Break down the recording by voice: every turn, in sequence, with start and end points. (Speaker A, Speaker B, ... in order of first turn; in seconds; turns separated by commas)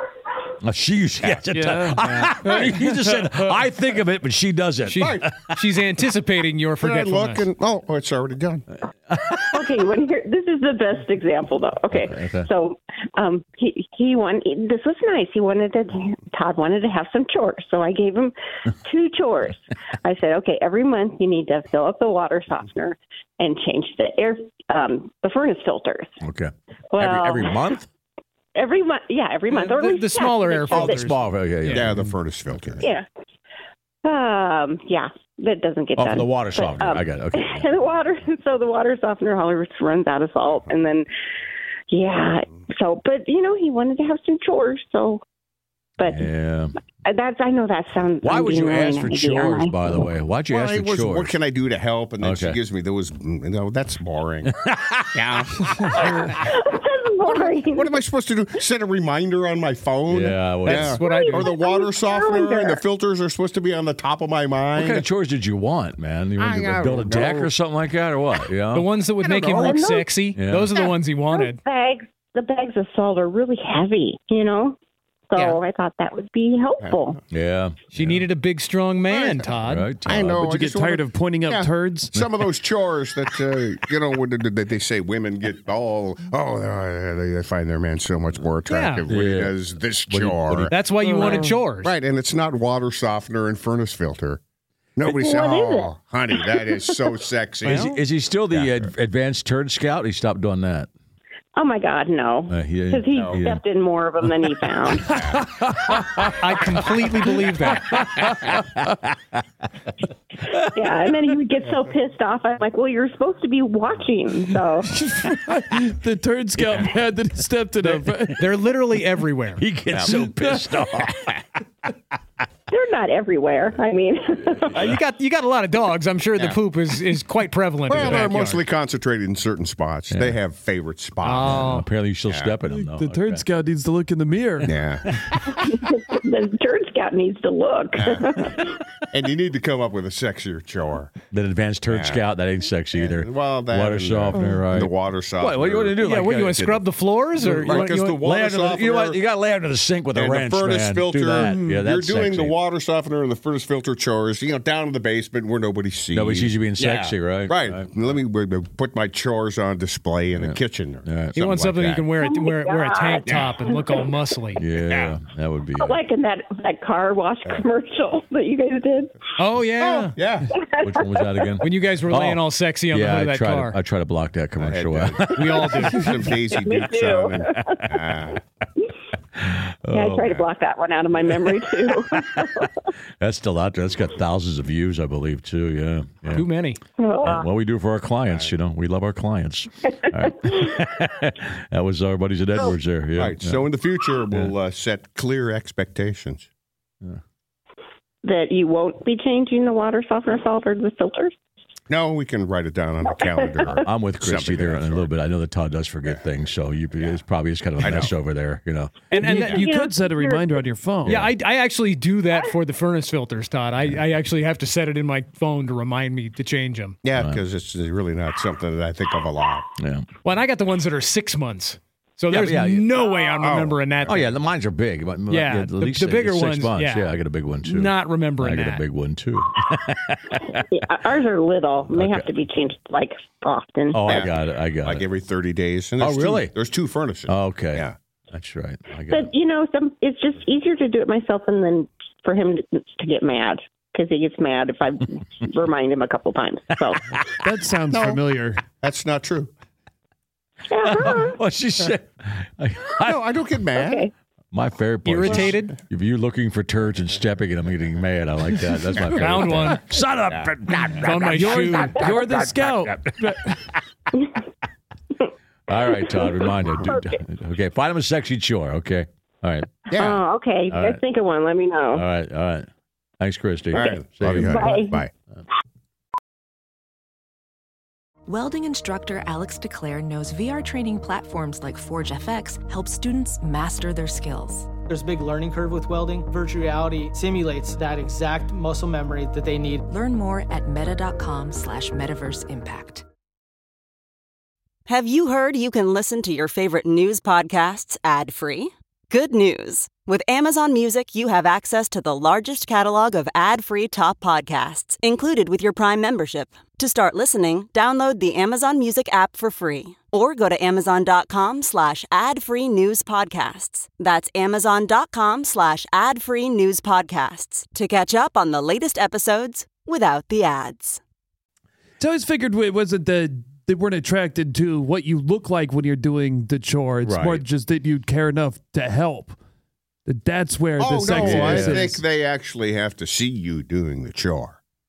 Speaker A: 0.6-5.6, Speaker B: 1.4-3.5, Speaker C: 4.9-7.5, Speaker D: 5.0-5.3, Speaker D: 6.8-8.7, Speaker E: 9.4-26.1, Speaker A: 12.0-12.5, Speaker A: 26.2-27.9, Speaker E: 26.9-27.7, Speaker E: 28.6-31.1, Speaker C: 29.5-31.9, Speaker A: 30.7-31.9, Speaker D: 31.7-32.8, Speaker E: 34.0-41.1, Speaker A: 36.0-37.7, Speaker E: 41.9-45.2, Speaker E: 46.0-46.3, Speaker A: 46.0-46.8, Speaker E: 47.0-50.0, Speaker A: 48.2-51.3, Speaker D: 50.5-54.5, Speaker A: 52.2-52.6, Speaker A: 54.6-55.1, Speaker D: 55.1-55.7, Speaker E: 56.0-58.0, Speaker D: 57.3-65.1, Speaker A: 60.1-61.0, Speaker C: 60.6-61.5, Speaker E: 61.0-62.8, Speaker A: 64.8-68.8, Speaker D: 66.4-67.5, Speaker C: 68.7-71.6, Speaker E: 69.2-70.1, Speaker A: 70.3-70.7, Speaker E: 70.8-74.8, Speaker E: 75.3-77.2, Speaker A: 77.3-78.2, Speaker C: 77.9-79.9, Speaker D: 79.1-79.5, Speaker A: 79.7-80.4, Speaker D: 80.0-94.4, Speaker B: 80.2-82.2, Speaker C: 88.7-89.0, Speaker A: 89.1-89.6, Speaker A: 90.1-90.8, Speaker C: 90.7-91.9, Speaker B: 91.0-91.5, Speaker D: 95.0-97.9, Speaker E: 95.0-96.8, Speaker A: 97.6-100.9, Speaker C: 97.7-97.9, Speaker D: 98.5-98.9, Speaker E: 101.5-105.1, Speaker A: 102.5-103.6, Speaker B: 105.1-106.3, Speaker D: 105.1-105.5, Speaker C: 106.4-108.0, Speaker B: 107.9-108.5, Speaker A: 108.2-108.9, Speaker E: 110.5-114.9, Speaker B: 114.8-118.4, Speaker C: 117.8-119.6, Speaker A: 119.6-121.3, Speaker B: 120.0-120.9, Speaker E: 122.7-124.9, Speaker C: 124.7-128.6, Speaker D: 127.9-131.7, Speaker A: 130.1-130.4, Speaker C: 131.2-131.9, Speaker A: 131.4-133.5, Speaker D: 132.3-132.5, Speaker B: 132.7-134.7, Speaker D: 134.6-135.2, Speaker A: 135.1-135.5, Speaker E: 135.5-138.8, Speaker D: 138.0-141.1, Speaker A: 141.3-146.8, Speaker D: 141.9-142.2, Speaker D: 142.9-146.0, Speaker C: 146.0-148.2, Speaker D: 147.4-149.2, Speaker A: 148.2-152.6, Speaker D: 150.1-162.1, Speaker B: 151.4-151.8, Speaker A: 156.1-158.2, Speaker A: 160.4-161.4, Speaker C: 161.4-164.6, Speaker E: 162.2-163.6, Speaker A: 164.6-166.0, Speaker D: 164.9-165.1, Speaker E: 165.8-169.2, Speaker C: 169.4-170.2, Speaker D: 169.8-170.5, Speaker E: 170.5-171.6, Speaker A: 170.8-176.3, Speaker C: 171.6-173.8, Speaker D: 174.6-178.4, Speaker C: 175.3-176.1, Speaker E: 176.3-177.9, Speaker A: 179.4-180.5, Speaker E: 179.9-182.7, Speaker A: 183.2-186.5, Speaker C: 186.3-186.8, Speaker E: 187.0-187.5, Speaker A: 187.2-193.6, Speaker D: 193.2-196.5, Speaker E: 198.2-201.3, Speaker D: 201.9-205.1, Speaker E: 203.3-203.9, Speaker A: 203.8-209.1, Speaker D: 207.8-208.1, Speaker C: 209.1-209.8, Speaker B: 209.1-211.3, Speaker E: 209.3-210.6, Speaker A: 211.0-211.3, Speaker C: 211.0-217.0, Speaker D: 217.0-219.7, Speaker A: 217.2-217.4, Speaker A: 219.8-220.1, Speaker C: 220.2-224.3, Speaker A: 222.3-223.1, Speaker D: 223.4-224.3, Speaker A: 224.1-230.6, Speaker C: 225.3-228.8, Speaker E: 230.5-234.2, Speaker A: 231.9-232.3, Speaker A: 233.9-235.0, Speaker D: 234.1-237.9, Speaker A: 236.0-236.5, Speaker A: 237.3-239.3, Speaker E: 239.1-247.0, Speaker B: 247.4-248.6, Speaker D: 247.9-248.2, Speaker D: 248.8-249.5, Speaker E: 250.7-251.4, Speaker A: 250.8-253.2, Speaker D: 253.0-254.1, Speaker E: 253.8-254.1, Speaker A: 254.5-262.9, Speaker C: 255.1-255.8, Speaker C: 259.1-259.8, Speaker C: 261.0-262.0, Speaker B: 261.3-263.8, Speaker A: 265.7-270.0, Speaker E: 266.1-267.0, Speaker D: 269.9-270.2, Speaker E: 270.0-272.1, Speaker A: 270.7-271.0, Speaker A: 271.9-272.7, Speaker A: 273.2-274.8, Speaker D: 273.7-275.1, Speaker E: 273.7-275.0, Speaker F: 278.3-284.7, Speaker G: 284.8-289.9, Speaker F: 289.9-293.1, Speaker H: 294.9-321.0, Speaker B: 322.0-329.4, Speaker A: 327.0-327.4, Speaker B: 330.1-332.0, Speaker D: 330.8-334.6, Speaker A: 331.2-331.9